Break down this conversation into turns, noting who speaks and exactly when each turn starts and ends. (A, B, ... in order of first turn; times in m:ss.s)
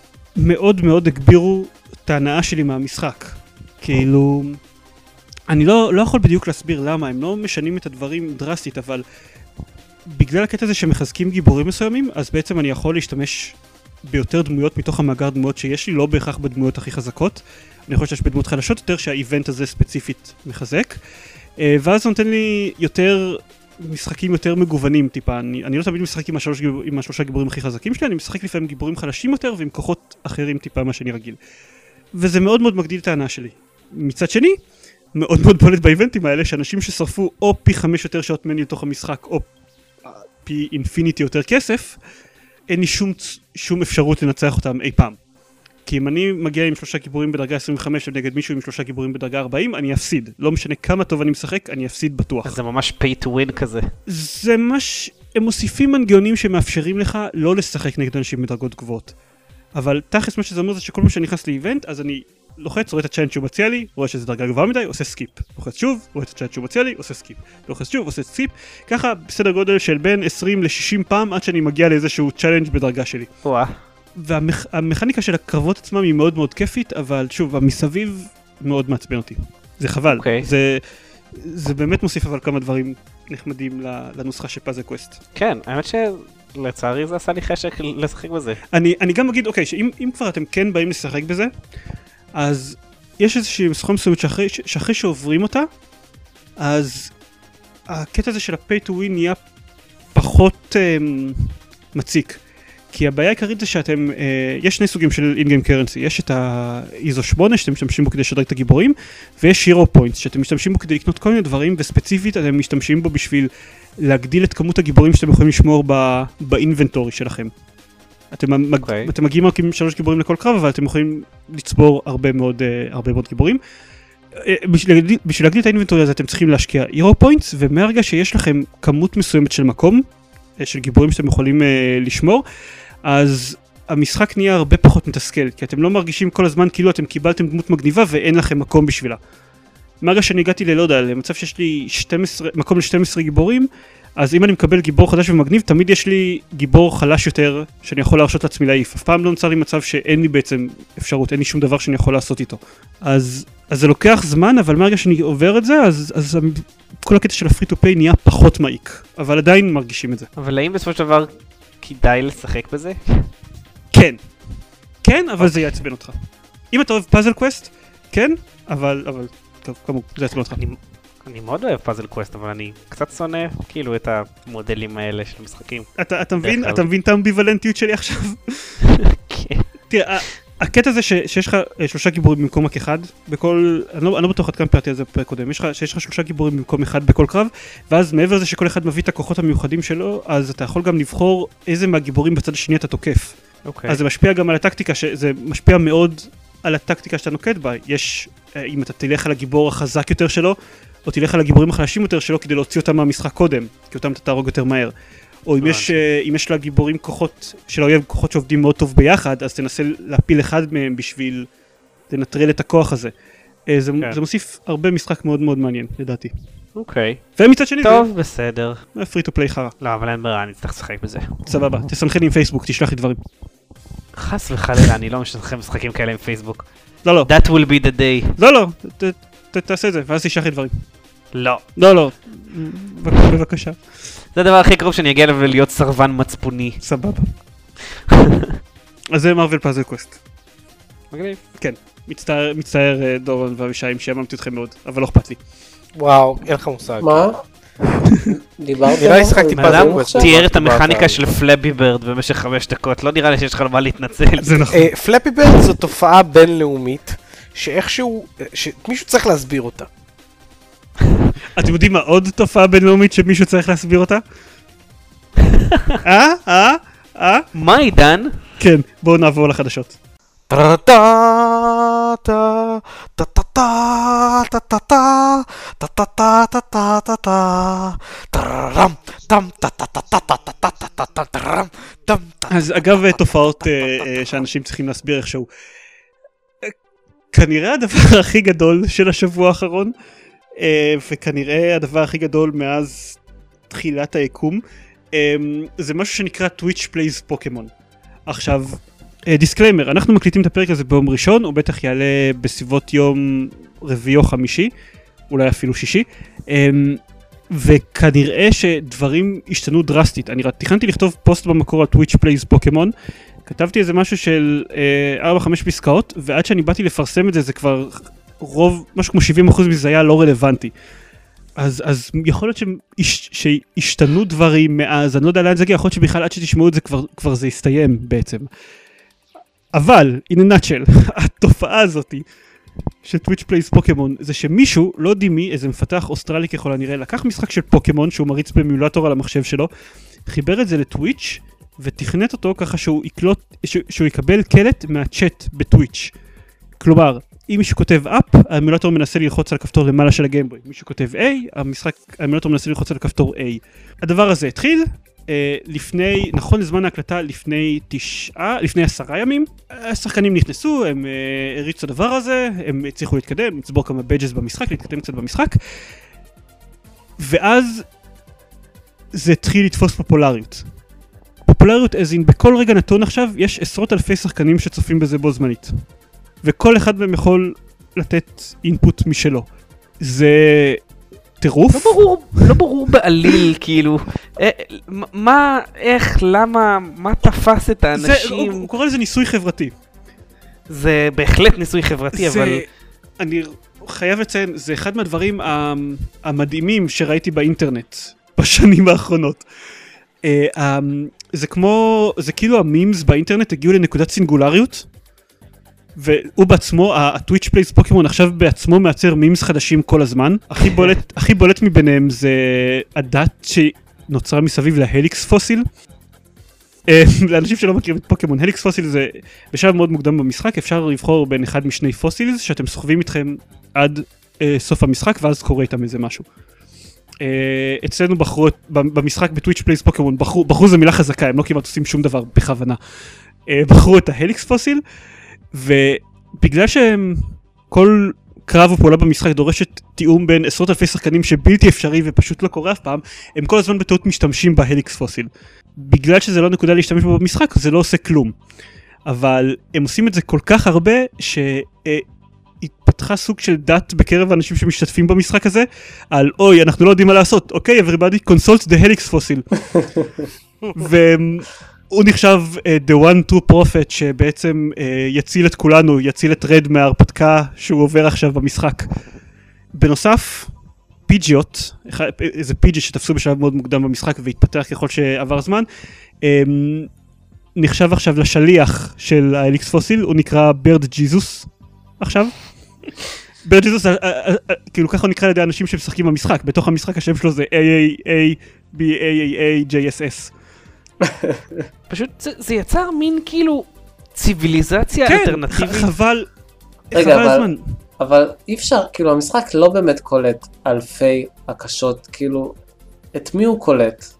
0:00.4-0:04.6 A
0:05.5-0:09.0 A
0:10.1-0:21.0 A
0:21.6-0:31.4 A
0:32.1-0:34.6 A
0:35.1-0:39.5 A
0:40.0-0:42.0 A
0:42.7-0:45.2 A
0:45.9-0:52.6 A
0:52.4-0:53.9 B
0:54.1-0:59.1 A
0:59.7-1:13.3 A
1:13.4-1:13.8 B
1:14.2-1:20.8 A
1:20.1-1:20.5 B
1:21.3-1:25.2 A
1:25.3-1:28.6 B
1:28.7-1:31.5 A
1:32.4-1:35.7 A
1:36.6-1:37.1 A
1:37.9-1:39.4 A
1:40.1-1:42.4 A
1:42.9-1:57.5 A
1:58.3-2:03.6 A
1:58.8-1:59.1 B
2:04.4-2:10.0 A
2:10.6-2:12.4 A
2:13.0-2:19.2 A
2:20.0-2:40.3 A
2:40.4-2:43.3 B
2:43.9-2:44.2 A
2:45.0-2:46.2 A
2:45.4-2:45.6 B
2:46.7-2:50.6 A
2:50.6-2:55.9 B
2:56.0-2:58.8 A
2:56.4-2:56.8 B
2:59.3-2:59.7 B
2:59.9-3:13.3 A
3:13.7-3:14.0 B
3:13.9-3:20.6 A
3:21.0-3:24.9 A
3:25.4-3:31.5 A
3:25.6-3:25.9 B
3:32.1-3:33.1 A
3:33.7-3:36.3 A
3:36.8-3:37.2 B
3:37.4-3:38.1 A
3:37.8-3:38.8 B
3:39.0-3:39.7 A
3:39.8-3:41.4 B
3:41.4-3:43.2 A
3:44.1-3:46.6 B
3:47.0-3:47.3 A
3:47.3-3:48.3 B
3:48.4-3:50.7 A
3:51.3-3:51.6 B
3:51.8-3:53.8 A
3:54.3-3:56.8 B
3:56.8-3:57.3 A
3:58.1-3:58.5 B
3:59.1-4:00.2 A
4:01.1-4:01.4 B
4:01.6-4:05.4 A
4:06.0-4:07.3 C
4:07.0-4:07.4 D
4:08.2-4:10.3 D
4:09.0-4:11.2 C
4:09.5-4:14.7 B
4:14.4-4:14.9 A
4:14.7-4:19.9 C
4:21.5-4:24.2 A
4:26.0-4:27.4 A
4:27.5-4:28.4 B
4:28.6-4:30.0 A
4:30.5-4:43.2 C
4:42.5-4:45.5 A
4:47.3-4:49.9 A
4:50.6-4:53.2 A
4:53.7-4:54.6 A
4:55.1-4:57.7 A
4:58.3-5:04.7 A
5:05.3-5:12.9 A
5:13.4-5:20.7 A
5:21.6-5:28.5 A
5:29.7-5:32.2 A
5:33.0-5:39.7 A
5:40.3-5:46.1 A
5:46.8-6:05.6 A
6:07.2-6:07.8 A
6:09.1-6:10.7 A
6:11.4-6:15.8 A
6:16.4-6:19.4 A
6:20.0-6:20.8 A
6:21.4-6:22.6 A
6:21.7-6:28.7 B
6:28.0-6:29.7 A
6:30.7-6:32.6 B
6:32.1-6:32.7 A
6:33.2-6:39.4 A
6:40.2-6:44.9 A
6:46.0-6:55.6 A
6:50.7-6:50.9 B
6:56.9-7:06.2 A
7:07.2-7:12.8 A
7:13.5-7:14.8 A
7:15.5-7:28.3 A
7:29.0-7:32.0 A
7:32.6-7:40.0 A
7:40.7-7:48.9 A
7:49.7-7:50.5 A
7:51.1-7:55.7 A
7:56.2-7:56.9 A
7:57.6-8:01.5 A
8:02.0-8:02.5 A
8:03.4-8:10.3 A
8:11.0-8:11.6 D
8:11.9-8:15.9 B
8:15.0-8:16.3 A
8:16.9-8:17.6 A
8:16.9-8:17.5 D
8:18.0-8:22.6 D
8:23.1-8:24.0 D